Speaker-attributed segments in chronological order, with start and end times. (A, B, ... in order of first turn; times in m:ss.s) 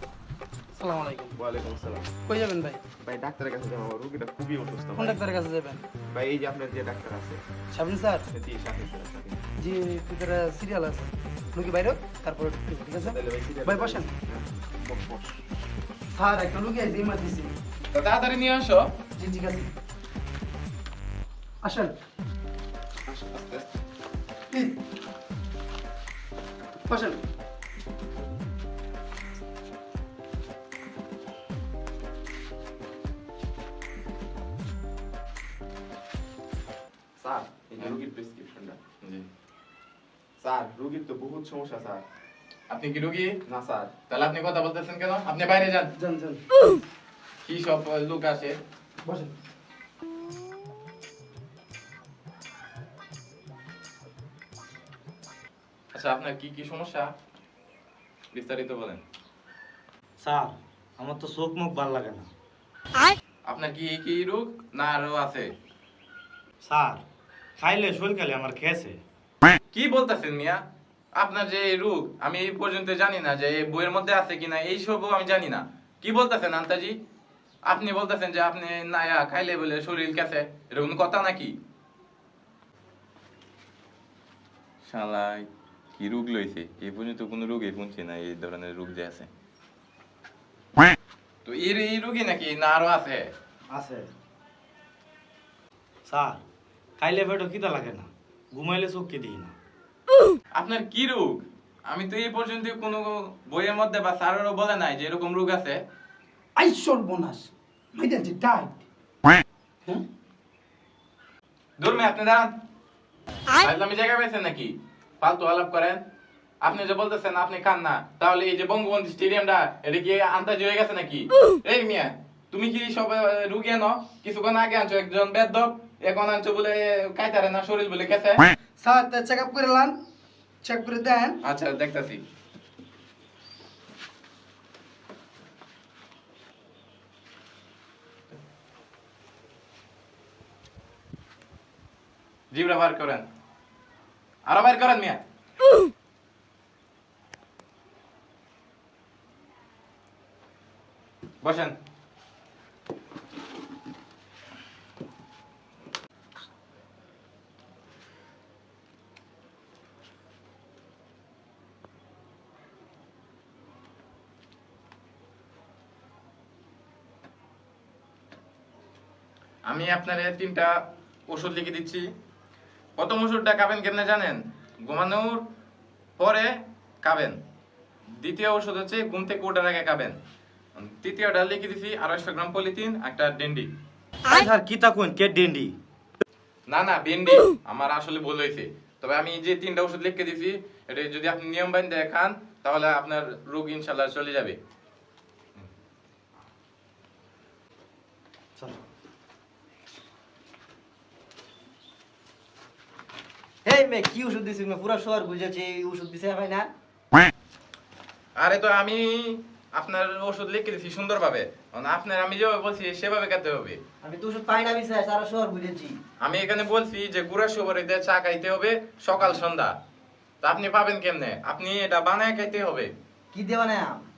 0:00.8-0:01.4 A
0:01.4-0:02.1 B
0:02.3-0:02.8 A
0:03.0-0:05.2 B
0:05.0-0:05.8 A
0:06.1-0:07.4 B
0:07.7-0:08.3 A
0:08.3-0:09.4 B
0:09.6-0:14.1 A
0:13.0-0:15.4 B
0:16.1-0:17.5 A
0:17.9-0:18.9 C
0:19.2-0:19.7 A
0:21.6-0:22.0 A
0:23.1-0:23.7 B
0:24.5-0:24.8 A
0:26.9-0:27.2 A
0:37.2-0:38.8 B
0:40.4-0:42.0 B
0:42.7-0:43.4 C
0:43.5-0:43.9 B
0:44.1-0:45.9 C
0:46.0-0:46.4 A
0:47.4-0:48.6 C
0:49.0-0:49.3 A
0:55.9-0:57.1 C
0:58.3-0:59.0 C
1:00.2-1:02.3 D
1:03.5-1:05.5 C
1:06.6-1:07.0 D
1:07.6-1:09.0 D
1:09.7-1:10.6 C
1:11.2-1:17.0 C
1:17.7-1:21.5 C
1:24.8-1:29.3 C
1:31.4-1:33.3 C
1:33.7-1:34.1 D
1:36.1-1:36.4 D
1:37.0-1:39.5 D
1:40.5-1:45.8 C
1:46.6-1:48.8 A
1:51.8-1:52.6 C
1:53.6-1:56.0 C
1:56.6-2:08.5 C
2:08.8-2:10.0 A
2:10.6-2:11.4 A
2:11.4-2:12.2 C
2:22.5-2:23.3 C
2:24.5-2:25.2 C
2:31.4-2:31.8 C
2:49.7-2:50.7 C
2:51.3-2:52.0 C
2:53.0-2:55.4 C
2:56.2-2:56.5 C
2:57.0-2:57.4 C
2:58.2-3:00.2 C
3:00.8-3:03.7 C
3:04.3-3:05.8 D
3:06.7-3:14.6 C
3:23.6-3:26.7 E
3:28.4-3:33.8 C
3:34.0-3:36.0 E
3:36.2-3:39.8 C
3:40.4-3:42.9 C
3:43.3-3:44.1 E